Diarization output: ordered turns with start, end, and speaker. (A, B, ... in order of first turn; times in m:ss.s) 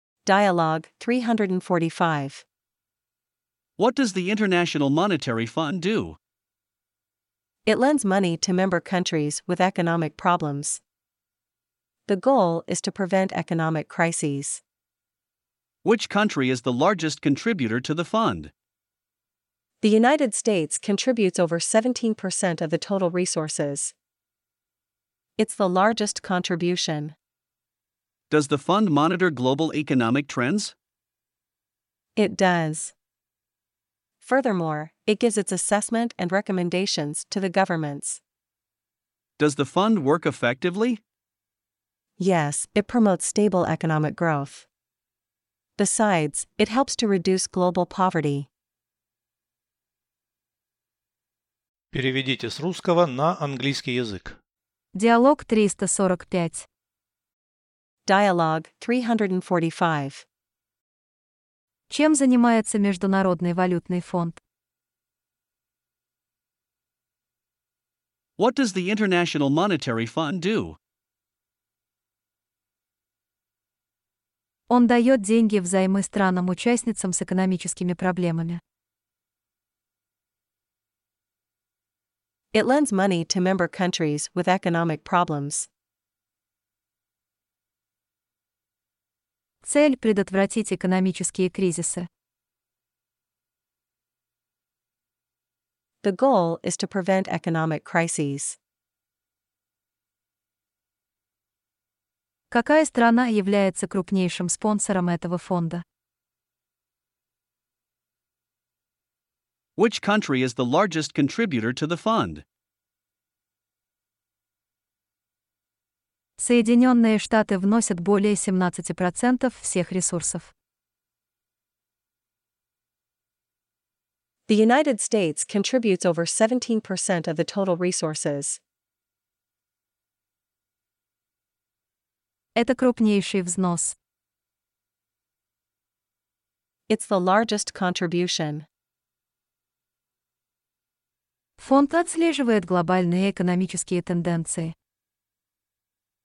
0:00.2-0:02.4 A
0:03.8-0:06.2 B
0:07.7-0:10.8 A
0:12.1-0:14.6 A
0:15.8-0:18.5 B
0:19.8-0:23.9 A
0:25.4-0:27.2 A
0:28.3-0:30.7 B
0:32.2-0:32.9 A
0:34.2-0:38.2 A
0:39.4-0:41.0 B
0:42.2-0:44.7 A
0:45.8-0:48.5 A
0:51.9-0:54.4 C
0:54.9-0:56.7 D
0:58.1-1:00.2 A
1:01.9-1:04.4 D
1:08.4-1:10.8 B
1:14.7-1:18.6 D
1:22.5-1:25.7 A
1:29.6-1:32.1 D
1:36.0-1:38.6 A
1:42.5-1:45.8 D
1:49.8-1:52.4 B
1:56.4-2:00.5 D
2:04.5-2:08.6 A
2:12.6-2:14.0 D
2:16.9-2:18.7 A
2:21.6-2:24.8 D